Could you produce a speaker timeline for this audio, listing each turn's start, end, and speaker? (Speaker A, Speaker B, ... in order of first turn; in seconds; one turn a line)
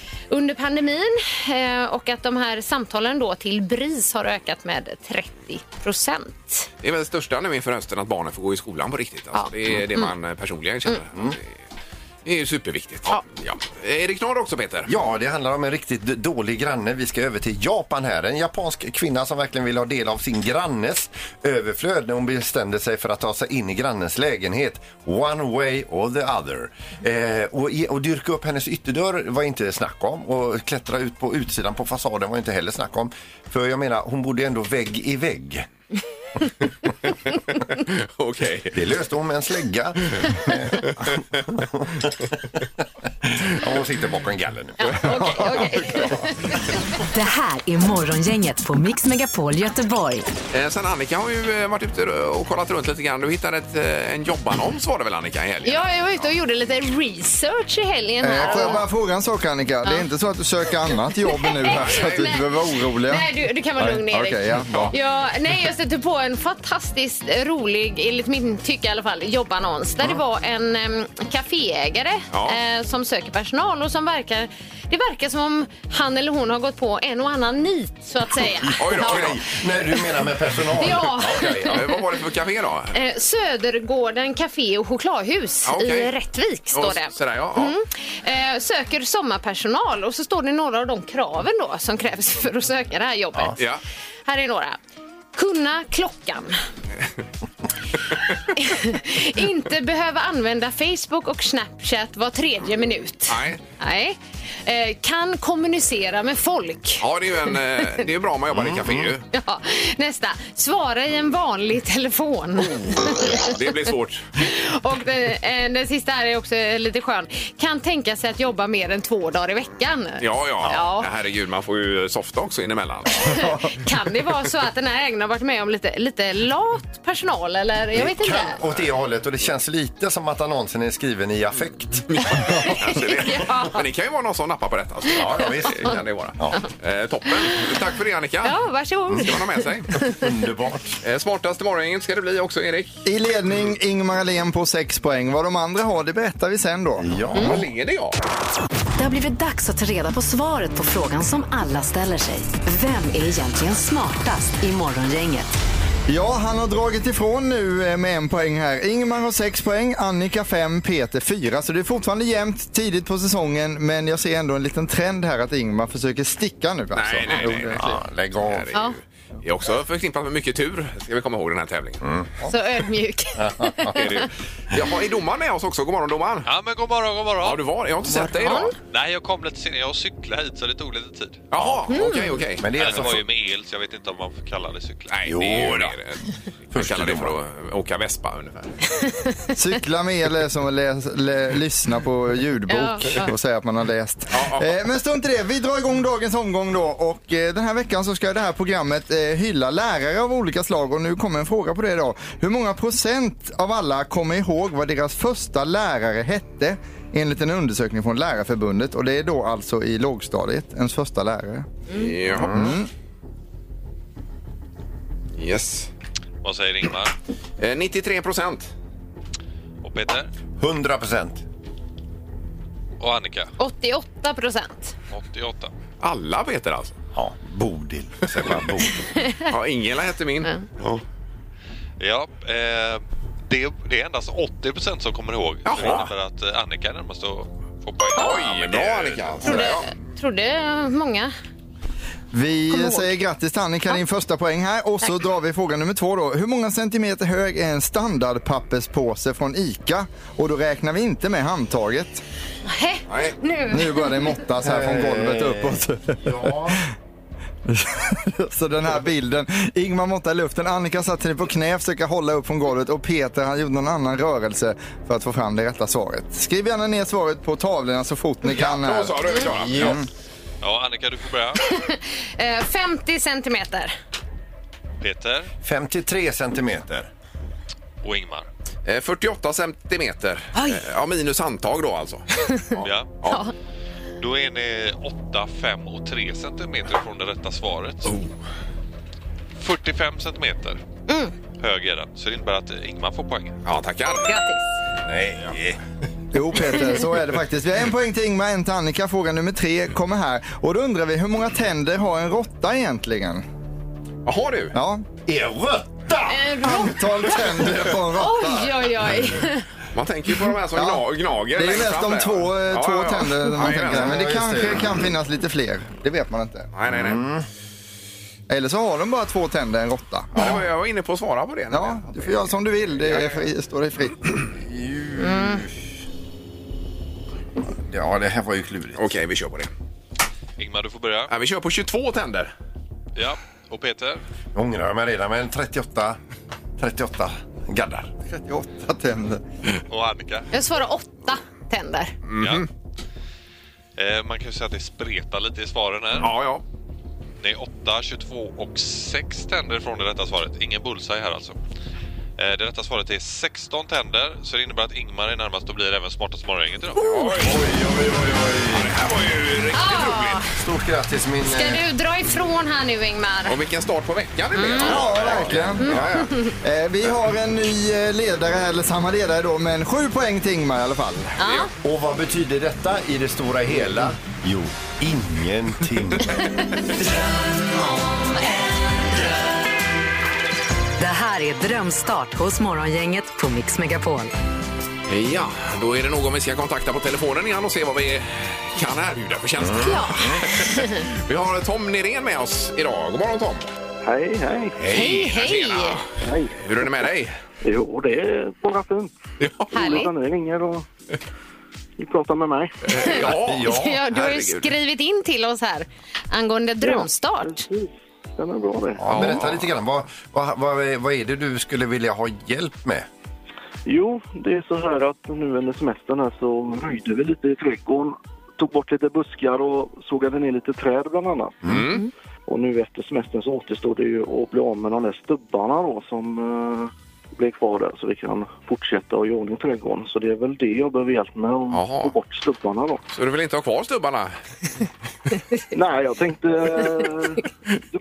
Speaker A: 0.3-6.7
Speaker B: 6.8-11.5
Speaker A: 9.3-10.1
Speaker B: 12.2-14.9
Speaker C: 14.8-35.6
Speaker B: 37.5-38.8
Speaker C: 38.7-42.6
Speaker C: 43.2-45.7
Speaker A: 44.8-46.8
Speaker B: 45.5-46.1
Speaker D: 47.1-50.3
Speaker B: 50.5-55.8
Speaker A: 55.6-58.9
Speaker E: 58.2-64.9
Speaker A: 61.3-79.4
Speaker B: 61.7-62.4
Speaker B: 72.3-72.6
Speaker C: 78.7-81.8
Speaker B: 78.8-79.4
Speaker A: 80.8-82.0
Speaker B: 81.6-82.9
Speaker A: 82.9-93.6
Speaker B: 85.6-86.1
Speaker B: 86.7-87.7
Speaker A: 94.2-94.8
Speaker A: 95.3-96.5
Speaker A: 98.3-107.8
Speaker B: 103.3-103.6
Speaker B: 107.0-109.2
Speaker C: 108.5-109.1
Speaker A: 109.3-113.6
Speaker B: 112.6-114.2
Speaker A: 114.4-121.1
Speaker B: 120.2-123.4
Speaker A: 123.1-128.6
Speaker C: 127.9-132.6
Speaker B: 132.1-138.6
Speaker A: 132.6-133.8
Speaker C: 135.1-136.6
Speaker A: 138.4-140.1
Speaker B: 139.1-139.9
Speaker C: 140.0-141.0
Speaker B: 141.0-142.9
Speaker E: 143.1-147.1
Speaker C: 147.0-147.6
Speaker B: 147.3-148.2
Speaker D: 149.0-155.5
Speaker E: 156.1-167.9
Speaker B: 166.9-172.0
Speaker C: 167.7-168.7
Speaker C: 172.0-172.6
Speaker A: 172.5-174.3
Speaker C: 173.3-174.3
Speaker B: 173.9-176.5
Speaker F: 176.4-177.6
Speaker B: 177.4-178.7
Speaker A: 178.4-178.7
Speaker F: 178.9-181.5
Speaker B: 181.5-183.1
Speaker C: 181.6-182.0
Speaker A: 181.9-182.3
Speaker C: 182.6-183.3
Speaker F: 182.7-185.3
Speaker B: 185.1-188.7
Speaker C: 185.2-185.9
Speaker C: 186.7-187.4
Speaker E: 189.6-211.7
Speaker A: 192.7-193.3
Speaker B: 194.3-194.8
Speaker B: 211.9-212.8
Speaker C: 212.3-212.8
Speaker E: 212.3-212.9
Speaker B: 215.3-215.9
Speaker F: 216.4-217.1
Speaker B: 217.6-218.7
Speaker F: 219.8-220.3
Speaker C: 220.6-221.4
Speaker F: 223.0-223.5
Speaker A: 223.6-224.9
Speaker F: 225.1-225.7
Speaker B: 226.0-227.0
Speaker C: 227.1-229.1
Speaker B: 229.4-230.5
Speaker F: 232.0-239.5
Speaker B: 235.6-236.1
Speaker B: 238.1-239.9
Speaker A: 239.4-241.3
Speaker E: 242.3-252.2
Speaker A: 242.7-243.1
Speaker A: 252.7-254.4
Speaker B: 253.1-253.4
Speaker E: 253.7-256.8
Speaker C: 254.6-256.8
Speaker E: 257.6-270.0
Speaker B: 268.5-270.0
Speaker F: 270.6-271.6
Speaker A: 271.6-273.9
Speaker F: 275.0-275.5
Speaker C: 275.6-277.1
Speaker F: 278.0-278.5
Speaker B: 278.9-282.2
Speaker F: 282.8-283.1
Speaker A: 283.2-283.5
Speaker F: 284.2-288.1
Speaker F: 289.6-290.8
Speaker F: 291.6-293.6
Speaker B: 293.6-294.3
Speaker A: 294.2-294.6
Speaker C: 295.1-295.8
Speaker E: 296.3-303.4
Speaker B: 304.2-304.7
Speaker E: 304.7-305.1
Speaker C: 305.2-306.8
Speaker A: 306.3-307.0
Speaker E: 306.6-308.7
Speaker C: 307.3-308.0
Speaker A: 308.1-309.6
Speaker B: 309.9-314.2
Speaker E: 310.7-316.7
Speaker C: 313.8-315.1
Speaker B: 316.7-317.2
Speaker C: 316.9-317.5
Speaker E: 318.5-320.6
Speaker B: 320.3-322.5
Speaker E: 321.7-324.4
Speaker B: 323.0-323.4
Speaker C: 324.5-325.7
Speaker A: 325.2-325.6
Speaker C: 327.7-329.1
Speaker B: 328.9-329.7
Speaker F: 330.6-331.3
Speaker B: 331.3-332.5
Speaker F: 333.1-334.2
Speaker C: 334.5-336.2
Speaker C: 336.8-338.1
Speaker E: 338.3-339.4
Speaker F: 339.9-340.5
Speaker A: 340.5-342.1
Speaker B: 342.3-342.7
Speaker F: 342.4-342.7
Speaker F: 344.0-346.4
Speaker B: 346.2-346.6
Speaker F: 347.4-351.6
Speaker F: 352.4-357.2
Speaker B: 356.9-357.6
Speaker C: 357.2-358.9
Speaker B: 358.7-360.4
Speaker A: 359.7-360.5
Speaker C: 360.5-361.8
Speaker A: 361.4-363.6
Speaker B: 363.4-366.3
Speaker A: 364.5-365.0
Speaker E: 364.8-366.0
Speaker C: 364.9-366.0
Speaker A: 365.8-366.5
Speaker E: 366.6-371.3
Speaker A: 371.4-371.7
Speaker B: 371.4-371.7
Speaker C: 371.8-377.2
Speaker D: 381.0-384.3
Speaker B: 385.1-393.7
Speaker C: 389.6-390.4
Speaker A: 389.8-391.0
Speaker G: 394.0-394.8
Speaker B: 394.8-396.1
Speaker A: 394.9-396.0
Speaker G: 396.2-396.6
Speaker B: 396.6-397.4
Speaker G: 397.6-399.1
Speaker B: 399.4-399.7
Speaker G: 399.7-400.9
Speaker A: 399.7-400.1
Speaker G: 402.0-402.8
Speaker B: 402.9-404.7
Speaker A: 402.9-407.7
Speaker C: 403.0-403.9
Speaker G: 406.8-409.0
Speaker C: 409.0-413.1
Speaker B: 409.0-409.6
Speaker G: 413.9-421.6
Speaker B: 421.6-422.0
Speaker G: 422.5-433.0
Speaker B: 431.7-432.1
Speaker B: 433.1-434.4
Speaker G: 435.7-437.4